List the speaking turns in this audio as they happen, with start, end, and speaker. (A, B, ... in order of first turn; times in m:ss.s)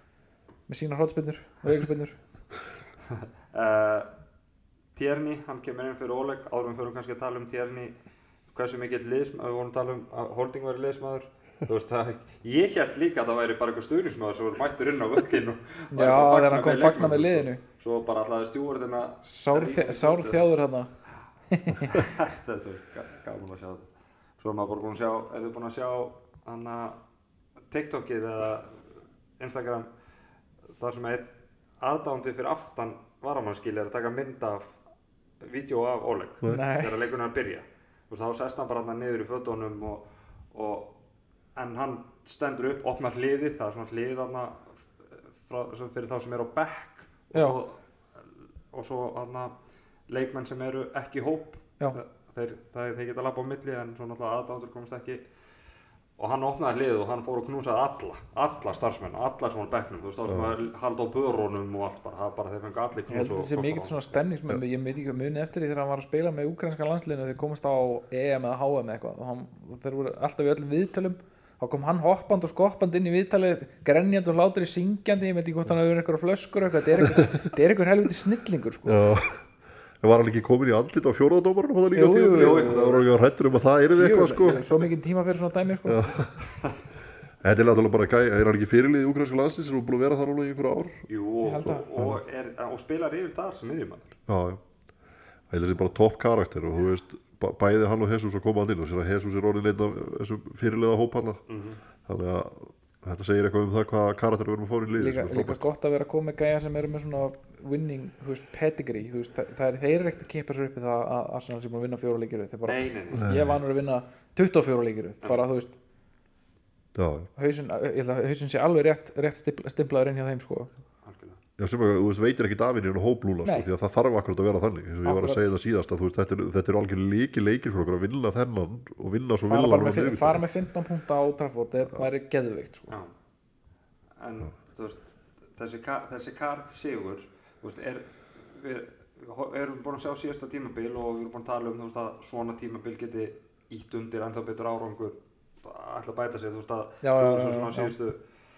0:00.7-0:02.2 A
0:03.1-0:04.1 B
0:04.9-0:07.9 B
0:08.5-0:20.5 B
0:15.9-0:17.6 A
0:19.2-0:20.9 A
0:21.5-0:22.1 A
0:21.9-0:23.8 B
0:24.4-0:27.0 B
0:27.7-0:28.8 B
0:29.4-0:29.9 B
0:30.8-0:31.3 B
0:31.8-0:34.7 B
0:35.4-0:40.9 B
0:36.5-0:37.0 A
0:41.5-0:49.5 B
0:50.1-0:55.2 B
0:56.2-1:04.1 B
1:00.3-1:00.5 C
1:03.1-1:19.0 A
1:18.8-1:19.4 C
1:20.0-1:24.6 C
1:21.9-1:22.9 A
1:22.3-1:23.6 B
1:23.9-1:26.0 A
1:25.8-1:26.4 C
1:27.4-1:31.0 C
1:31.1-1:34.2 B
1:31.4-1:31.9 A
1:34.3-1:34.6 C
1:35.5-1:41.4 C
1:41.5-1:41.8 B
1:42.0-1:45.6 C
1:45.0-1:55.8 A
1:52.7-1:53.3 B
1:53.2-1:53.6 C
1:56.9-1:57.3 C
1:57.4-2:00.7 A
2:01.0-2:01.4 B
2:01.6-2:10.4 C
2:05.0-2:05.4 A
2:09.4-2:12.9 A
2:14.2-2:15.0 B
2:15.5-2:28.2 B
2:27.0-2:27.9 A